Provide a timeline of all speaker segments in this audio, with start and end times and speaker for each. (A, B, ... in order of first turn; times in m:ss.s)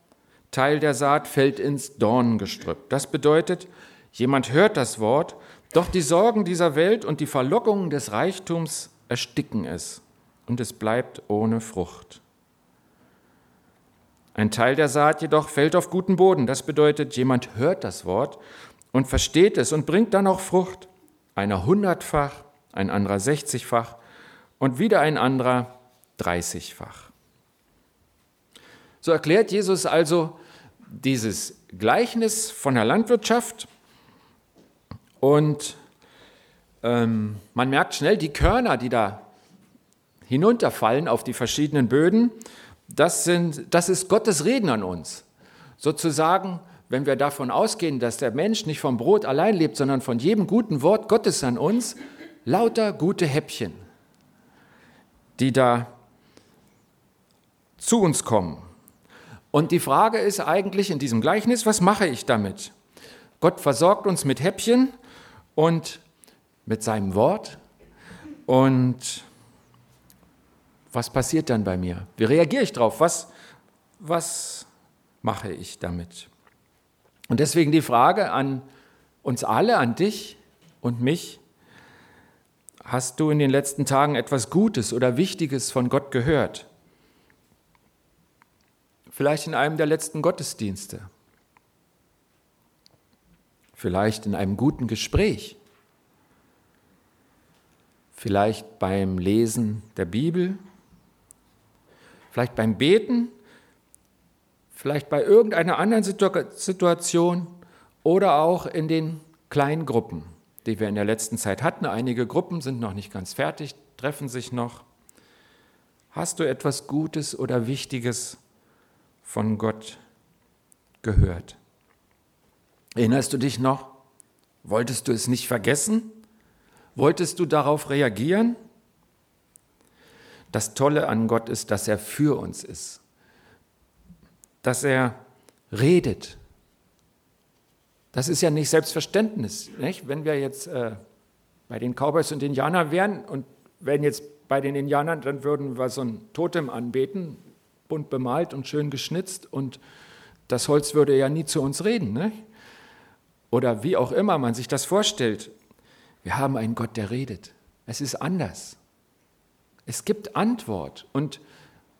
0:00.5-0:12.2 A
0:14.3-0:18.4 A
0:18.9-0:24.0 A
0:24.6-0:27.1 A
0:29.0-0:30.4 A
0:30.9-0:33.7 A
0:35.2-0:35.8 A
0:36.8-0:39.3 A
0:40.3-0:45.2 A
0:45.8-0:53.8 A
0:55.4-0:55.9 A
0:57.8-0:58.6 A
0:59.5-1:02.7 A
1:03.4-1:04.9 A
1:05.5-1:06.0 A
1:06.6-1:07.6 A
1:08.5-1:09.3 A
1:10.9-1:13.3 A
1:14.0-1:14.7 A
1:15.2-1:16.3 A
1:17.3-1:18.6 A
1:19.2-1:21.4 A
1:22.8-1:26.7 A
1:29.1-1:31.1 A
1:33.8-1:35.6 A
1:38.1-1:40.6 A
1:42.3-1:43.3 A
1:44.7-1:54.8 A
1:56.1-1:58.4 A
1:59.2-2:00.0 A
2:01.0-2:01.6 A
2:03.0-2:03.9 A
2:04.6-2:06.2 A
2:06.9-2:08.6 A
2:10.5-2:13.0 A
2:14.6-2:15.2 A
2:15.7-2:16.4 A
2:18.1-2:21.0 A
2:21.7-2:29.8 A
2:30.5-2:32.4 A
2:33.5-2:35.5 A
2:36.2-2:38.8 A
2:39.9-2:41.4 A